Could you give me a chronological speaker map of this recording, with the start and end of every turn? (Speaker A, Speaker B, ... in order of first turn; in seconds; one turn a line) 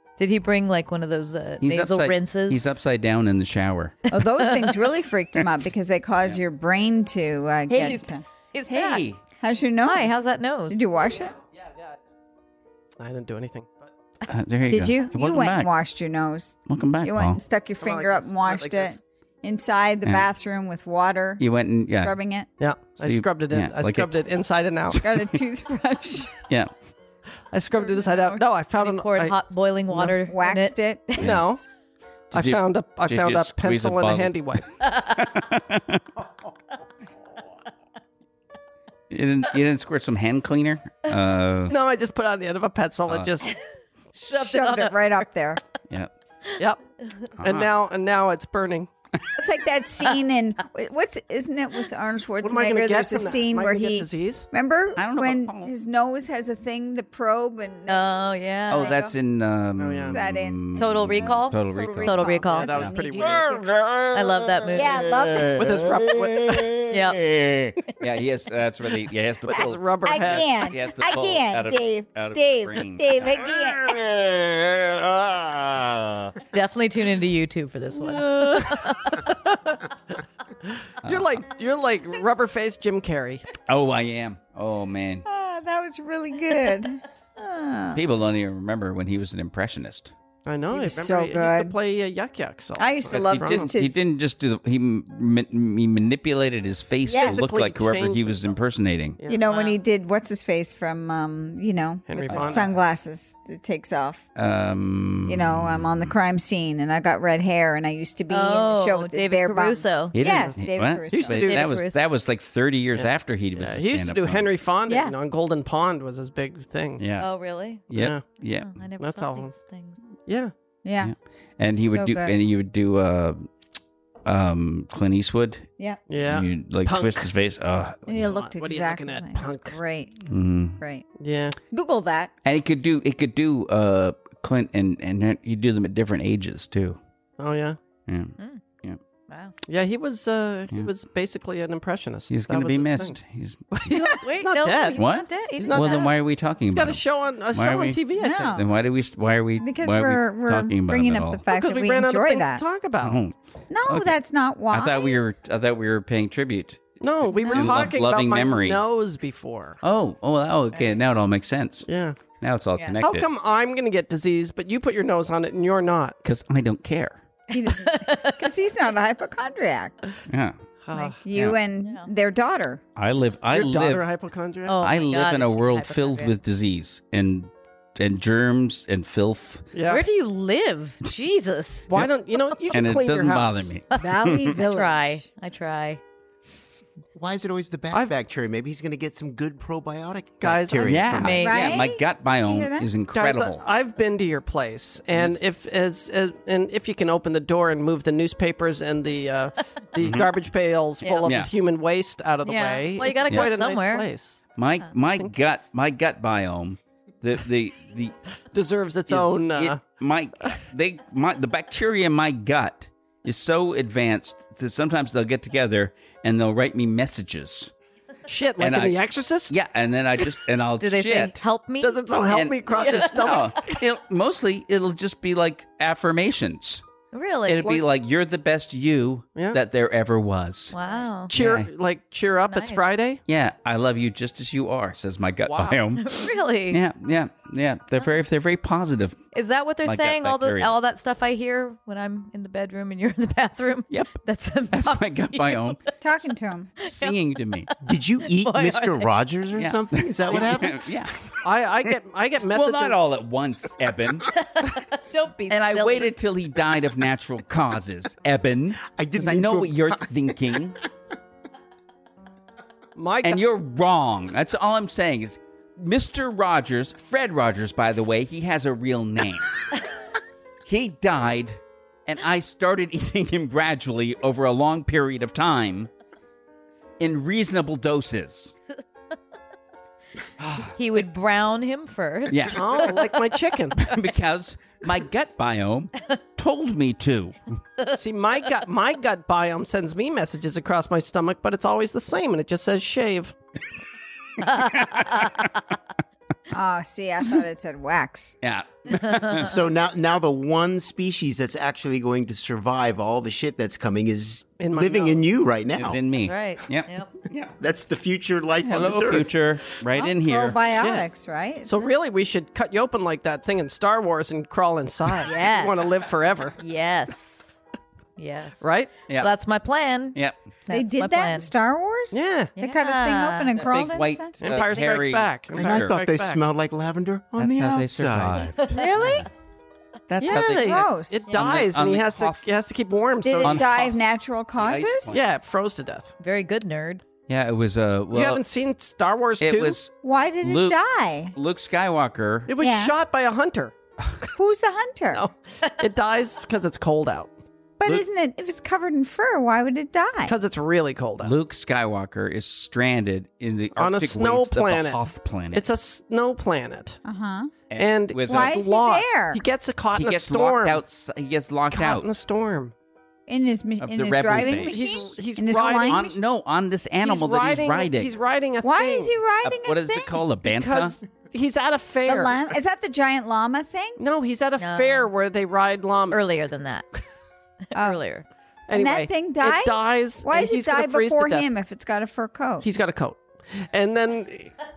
Speaker A: 0.2-2.8
Speaker B: 1.6-4.1
Speaker C: 4.1-8.2
Speaker A: 4.2-4.9
Speaker A: 7.7-9.1
Speaker B: 8.7-9.2
Speaker C: 9.4-11.3
Speaker A: 9.8-10.8
Speaker D: 11.6-12.0
Speaker D: 13.0-13.9
Speaker B: 14.3-15.7
Speaker C: 14.7-21.4
Speaker B: 16.7-17.4
Speaker D: 17.8-19.0
Speaker B: 21.4-22.2
Speaker C: 22.0-22.5
Speaker D: 22.6-25.0
Speaker B: 23.0-24.1
Speaker B: 24.9-25.2
Speaker C: 24.9-26.4
Speaker D: 27.5-29.4
Speaker A: 28.1-31.3
Speaker C: 30.2-31.1
Speaker D: 31.2-31.6
Speaker B: 31.2-31.5
Speaker D: 32.3-34.7
Speaker B: 32.3-36.0
Speaker B: 39.1-41.8
Speaker D: 41.7-43.5
Speaker B: 43.1-43.3
Speaker A: 44.2-45.2
Speaker C: 44.3-45.6
Speaker B: 47.4-47.7
Speaker D: 47.4-48.9
Speaker C: 49.4-58.1
Speaker D: 52.4-54.5
Speaker B: 55.0-55.7
Speaker A: 57.9-59.0
Speaker B: 58.7-76.3
Speaker C: 58.7-59.1
Speaker D: 59.8-60.2
Speaker C: 60.1-63.7
Speaker A: 60.8-62.8
Speaker D: 62.5-63.5
Speaker A: 64.1-65.0
Speaker C: 64.7-65.6
Speaker D: 65.6-66.8
Speaker A: 66.9-67.3
Speaker D: 69.4-70.5
Speaker C: 70.0-74.0
Speaker A: 76.5-79.3
Speaker D: 78.0-79.8
Speaker D: 80.7-83.5
Speaker B: 81.0-81.4
Speaker B: 83.7-85.2
Speaker C: 85.3-88.0
Speaker B: 88.0-90.1
Speaker D: 90.5-93.7
Speaker C: 90.7-91.8
Speaker C: 92.8-94.0
Speaker B: 93.1-99.2
Speaker C: 97.1-97.5
Speaker D: 97.2-98.4
Speaker D: 99.2-99.7
Speaker C: 99.3-104.2
Speaker D: 102.1-102.7
Speaker B: 102.3-102.7
Speaker B: 104.4-106.1
Speaker C: 105.3-111.5
Speaker A: 108.3-110.2
Speaker B: 110.1-114.5
Speaker D: 110.2-110.5
Speaker D: 111.1-111.7
Speaker A: 111.3-112.0
Speaker D: 113.0-117.0
Speaker C: 114.9-115.2
Speaker B: 117.0-117.3
Speaker A: 117.2-117.9
Speaker B: 117.9-118.7
Speaker D: 117.9-118.2
Speaker A: 118.5-120.0
Speaker D: 119.0-119.5
Speaker D: 120.3-120.5
Speaker C: 120.8-121.1
Speaker B: 121.0-123.5
Speaker C: 121.9-122.3
Speaker B: 124.2-125.7
Speaker D: 126.1-127.3
Speaker B: 126.2-128.3
Speaker C: 128.1-130.2
Speaker D: 128.2-129.8
Speaker B: 130.3-130.8
Speaker C: 130.8-131.1
Speaker D: 131.2-131.6
Speaker C: 131.7-132.3
Speaker B: 132.4-137.0
Speaker D: 137.4-137.8
Speaker B: 138.1-139.0
Speaker A: 138.4-138.6
Speaker A: 139.3-139.6
Speaker D: 139.7-143.2
Speaker B: 142.3-143.9
Speaker D: 143.8-145.1
Speaker A: 143.9-146.1
Speaker B: 144.9-148.0
Speaker D: 145.6-146.1
Speaker D: 146.7-148.6
Speaker C: 148.2-148.7
Speaker B: 148.5-151.4
Speaker C: 149.6-152.6
Speaker D: 151.5-153.2
Speaker B: 153.0-153.3
Speaker C: 153.7-155.2
Speaker B: 153.9-154.2
Speaker B: 154.7-158.8
Speaker D: 157.0-159.8
Speaker A: 157.4-157.7
Speaker B: 159.8-161.9
Speaker D: 161.9-162.2
Speaker B: 162.4-163.3
Speaker D: 163.0-166.2
Speaker B: 166.2-167.2
Speaker C: 167.5-170.0
Speaker A: 167.6-168.4
Speaker B: 170.3-170.6
Speaker D: 170.8-171.2
Speaker C: 170.9-172.8
Speaker A: 171.8-172.1
Speaker B: 173.0-174.1
Speaker D: 173.5-174.8
Speaker A: 174.7-176.3
Speaker B: 174.8-179.7
Speaker D: 179.7-180.1
Speaker A: 179.9-181.9
Speaker D: 181.9-183.7
Speaker B: 182.7-184.6
Speaker C: 183.9-185.2
Speaker A: 183.9-186.0
Speaker E: 187.2-191.4
Speaker D: 190.4-191.2
Speaker B: 190.8-193.6
Speaker A: 191.1-191.8
Speaker C: 191.4-192.9
Speaker D: 193.1-204.4
Speaker B: 195.1-195.4
Speaker B: 200.0-200.3
Speaker A: 201.0-201.4
Speaker B: 201.2-201.5
Speaker A: 202.4-204.1
Speaker B: 203.3-203.5
Speaker B: 204.6-208.2
Speaker D: 208.5-209.8
Speaker B: 209.1-217.7
Speaker D: 218.3-219.6
Speaker B: 218.6-221.4
Speaker A: 220.8-222.1
Speaker D: 221.8-223.8
Speaker B: 222.3-226.8
Speaker A: 222.7-223.5
Speaker A: 227.1-227.8
Speaker B: 227.5-230.8
Speaker A: 230.7-231.3
Speaker D: 231.3-233.2
Speaker B: 231.3-231.7
Speaker A: 232.5-232.8
Speaker B: 233.3-239.2
Speaker D: 235.4-235.8
Speaker A: 235.9-236.8
Speaker A: 239.3-245.9
Speaker B: 239.8-240.7
Speaker B: 243.9-244.2
Speaker B: 244.7-245.8
Speaker C: 246.0-246.7
Speaker A: 246.8-249.1
Speaker B: 246.9-247.7
Speaker E: 247.8-250.9
Speaker B: 249.6-251.2
Speaker D: 251.4-253.1
Speaker B: 252.5-254.3
Speaker A: 254.3-256.1
Speaker B: 255.5-260.8
Speaker E: 258.8-260.1
Speaker D: 263.0-263.4
Speaker B: 263.2-269.6
Speaker B: 270.6-275.9
Speaker B: 277.0-278.5
Speaker B: 280.4-280.7
Speaker A: 280.8-283.1
Speaker B: 282.3-282.9
Speaker D: 282.5-283.9
Speaker B: 283.8-287.4
Speaker D: 287.9-293.4
Speaker B: 294.5-295.3
Speaker C: 296.5-298.4
Speaker B: 298.4-299.6
Speaker E: 299.4-306.0
Speaker D: 304.6-305.2
Speaker B: 305.8-307.6
Speaker A: 306.2-307.1
Speaker E: 307.6-309.4
Speaker B: 308.6-310.6
Speaker C: 309.9-311.9
Speaker D: 310.8-311.1
Speaker D: 311.6-316.6
Speaker A: 315.2-315.9
Speaker A: 316.6-317.6
Speaker A: 318.2-321.5
Speaker D: 318.6-318.9
Speaker C: 320.7-324.3
Speaker D: 322.1-322.5
Speaker A: 322.6-323.5
Speaker B: 323.6-326.0
Speaker D: 324.4-326.4
Speaker E: 325.5-328.5
Speaker B: 327.4-329.2
Speaker C: 328.7-329.3
Speaker B: 330.1-332.5
Speaker D: 330.2-333.9
Speaker C: 330.3-331.3
Speaker C: 333.2-335.2
Speaker B: 333.4-333.9
Speaker B: 334.6-335.2
Speaker D: 335.1-336.1
Speaker A: 336.2-337.0
Speaker B: 337.3-338.4
Speaker D: 338.1-339.8
Speaker B: 339.4-340.8
Speaker C: 340.0-341.4
Speaker B: 341.3-342.5
Speaker D: 342.5-343.8
Speaker C: 342.6-342.9
Speaker C: 344.4-345.3
Speaker D: 345.1-347.3
Speaker C: 347.8-350.4
Speaker D: 350.3-351.4
Speaker B: 351.2-355.7
Speaker D: 353.8-357.0
Speaker C: 357.1-357.5
Speaker B: 357.7-358.6
Speaker D: 357.8-360.8
Speaker C: 358.3-359.4
Speaker B: 359.9-362.1
Speaker D: 361.7-362.7
Speaker C: 363.3-366.1
Speaker B: 363.8-364.8
Speaker D: 364.4-366.2
Speaker B: 365.8-368.1
Speaker D: 367.0-369.1
Speaker C: 368.6-370.2
Speaker B: 369.4-371.0
Speaker D: 370.4-372.5
Speaker C: 372.1-374.0
Speaker D: 374.0-376.4
Speaker A: 374.6-375.1
Speaker A: 376.1-376.9
Speaker A: 377.7-378.2
Speaker C: 377.7-378.0
Speaker D: 378.7-381.5
Speaker C: 378.7-382.7
Speaker D: 382.6-384.5